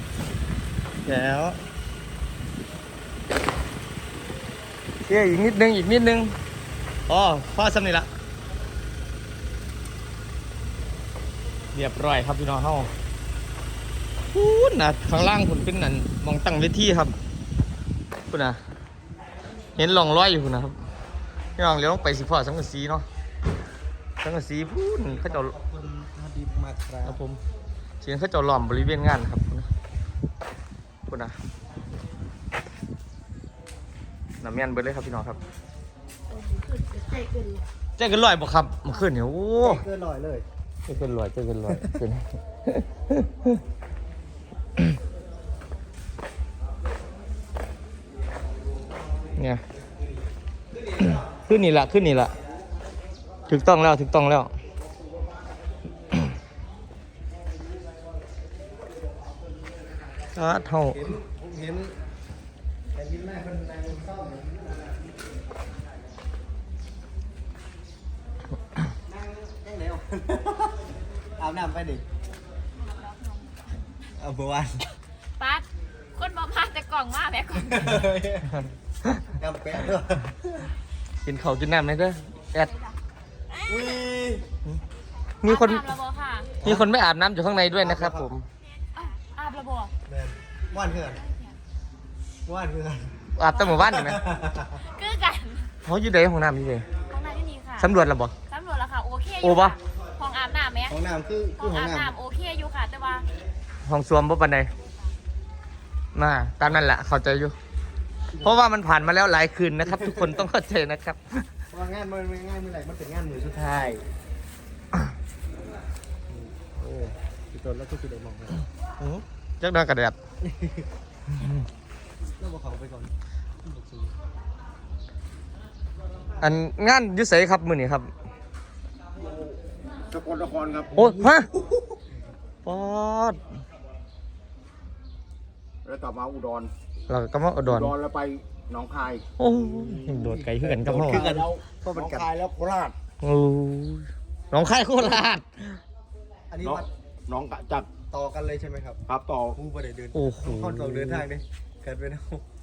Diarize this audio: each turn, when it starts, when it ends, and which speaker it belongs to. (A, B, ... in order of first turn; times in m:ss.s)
0:01.0-0:01.6 A
0:05.0-0:06.4 A
0:07.1-0:08.1 A
0:11.7-0:12.9 A
0:14.3-0:17.1 A
0:18.3-0:18.6 A
0:19.8-0:20.8 A
0:21.6-0:23.1 A
0:24.2-0:25.5 A
0:25.1-0:27.2 B
0:27.0-0:27.4 A
0:28.0-0:29.7 A
0:31.1-0:31.4 A
0:34.4-0:35.4 A
0:36.4-0:37.6 C
0:38.0-0:39.8 A
0:39.6-0:40.4 B
0:40.9-0:43.6 A
0:49.4-0:49.6 A
0:51.2-0:52.4 A
0:53.5-0:54.6 A
1:00.3-1:01.2 A
1:00.9-1:02.0 B
1:02.9-1:05.1 B
1:09.1-1:10.8 B
1:11.4-1:12.0 B
1:12.8-1:13.6 C
1:14.2-1:14.9 B
1:15.4-1:18.0 C
1:17.6-1:18.7 B
1:19.3-1:20.7 B
1:21.2-1:22.7 A
1:23.6-1:24.4 B
1:25.4-1:25.8 A
1:25.4-1:26.5 C
1:26.6-1:26.9 B
1:26.6-1:28.4 A
1:27.8-1:28.3 B
1:28.9-1:29.9 C
1:30.1-1:31.2 B
1:31.2-1:31.6 C
1:32.4-1:34.8 B
1:33.4-1:34.2 A
1:33.5-1:33.9 C
1:34.7-1:35.7 C
1:35.8-1:36.8 A
1:37.1-1:37.9 C
1:37.8-1:38.3 A
1:38.5-1:40.9 C
1:39.4-1:39.8 A
1:40.9-1:42.1 B
1:41.6-1:43.3 C
1:43.8-1:44.7 A
1:46.1-1:47.6 A
1:48.3-1:48.6 B
1:48.4-1:51.5 A
1:49.8-1:50.4 B
1:51.7-1:54.0 B
1:56.3-1:58.6 B
1:59.0-2:00.2 A
2:00.4-2:00.9 B
2:02.4-2:04.2 B
2:06.4-2:08.1 A
2:10.1-2:11.0 D
2:11.0-2:11.5 A
2:11.0-2:12.0 B
2:12.6-2:13.4 A
2:15.8-2:16.7 D
2:17.1-2:17.9 A
2:17.6-2:19.2 D
2:19.4-2:21.2 A
2:19.6-2:22.3 B
2:20.6-2:22.9 D
2:23.2-2:25.8 A
2:26.5-2:26.9 B
2:26.6-2:27.9 D
2:28.0-2:29.0 B
2:29.1-2:29.6 D
2:29.5-2:32.4 B
2:30.1-2:31.3 A